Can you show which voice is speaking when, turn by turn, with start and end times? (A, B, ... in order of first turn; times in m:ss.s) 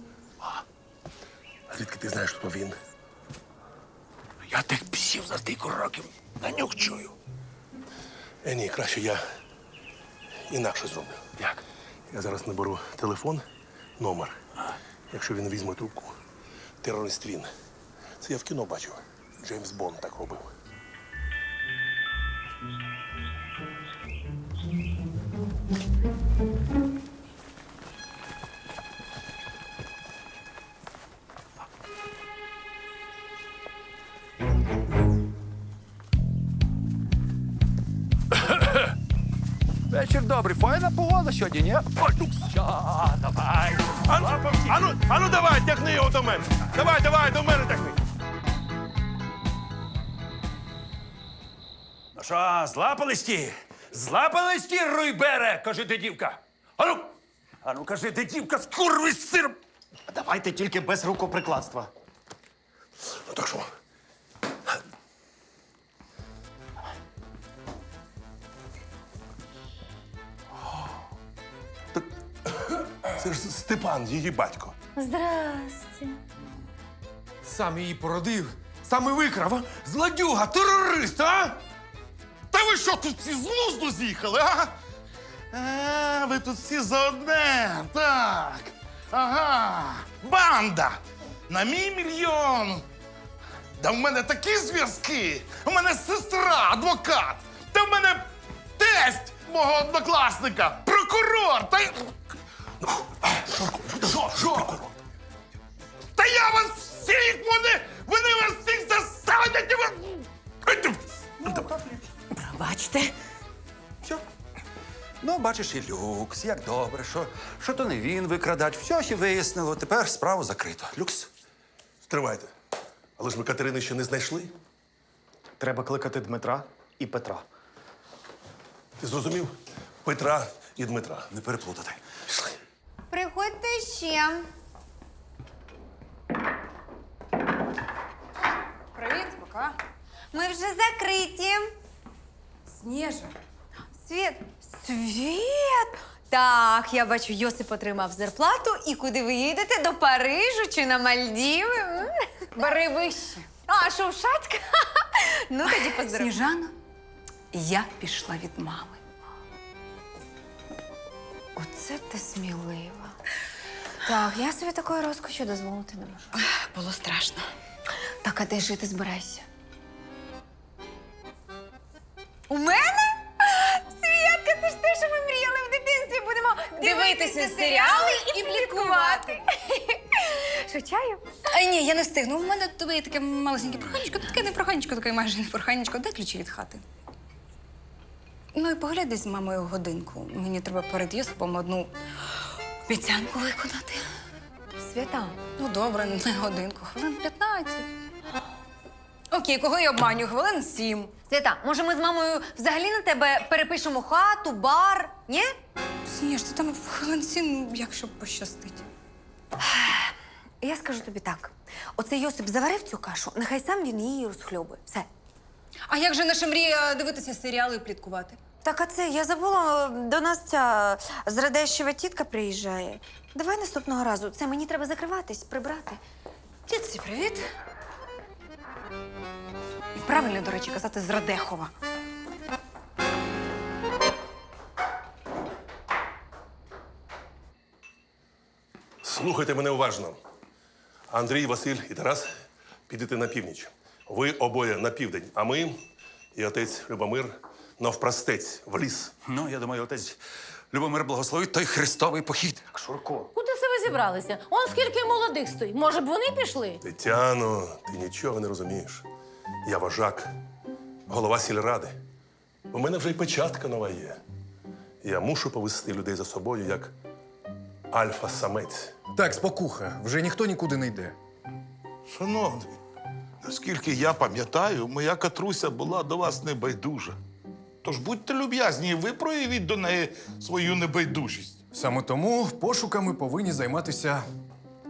0:01.7-0:02.8 A
0:04.5-0:07.1 B
0:08.4-0:09.2 A
0:10.5-0:11.2 A
0:12.1-0:13.4 A
0:14.0-0:14.4 A
0:15.1-0:16.2 A
0:16.8-0:17.5 A
0:18.2-0:20.5 A
0:39.9-0:44.8 B
0:42.0-0:42.3 A
0:44.1-0:48.0 A
0:52.2-0:59.6 B
1:00.1-1:01.9 C
1:03.3-1:03.7 A
1:12.7-1:14.7 A
1:15.0-1:16.2 D
1:17.5-1:21.6 B
1:22.5-1:24.7 E
1:25.5-1:32.8 E
1:33.8-1:42.1 E
1:42.8-1:44.8 A
1:46.2-1:50.2 E
1:52.5-1:53.1 F
1:55.2-2:01.3 B
2:02.0-2:02.5 A
2:03.2-2:04.5 A
2:05.6-2:07.4 C
2:09.0-2:11.3 A
2:11.3-2:12.0 B
2:13.1-2:14.5 D
2:19.0-2:19.8 G
2:20.3-2:21.7 D
2:22.7-2:23.4 G
2:24.0-2:36.4 D
2:32.6-2:33.4 G
2:35.6-2:36.7 G
2:37.5-2:39.0 G
2:41.6-2:43.2 D
2:44.0-2:46.4 D
2:46.4-2:47.4 G
2:48.2-2:49.4 D
2:52.5-3:01.2 D
2:56.8-2:59.4 G
3:01.5-3:06.8 G
3:08.5-3:11.9 G
3:12.9-3:14.0 G
3:14.8-3:15.4 D
3:15.6-3:17.9 G
3:19.3-3:21.1 G
3:21.3-3:25.6 D
3:26.0-3:28.8 G
3:29.6-3:35.1 D
3:35.9-3:38.4 G
3:38.6-3:46.0 D
3:46.7-3:47.4 G
3:50.0-3:51.7 G
3:59.0-4:00.2 A
4:01.1-4:02.3 A
4:02.9-4:05.8 A
4:06.4-4:09.1 A
4:09.2-4:10.2 B
4:10.7-4:12.7 B
4:12.8-4:13.3 C
4:13.4-4:16.8 F
4:16.8-4:19.1 A
4:19.6-4:20.3 A
4:21.1-4:22.0 A
4:22.7-4:24.2 A
4:25.0-4:26.9 A
4:27.9-4:28.9 A
4:29.2-4:31.2 H
4:32.1-4:32.8 E
4:33.4-4:37.2 E
4:37.8-4:41.6 E
4:41.7-4:44.3 H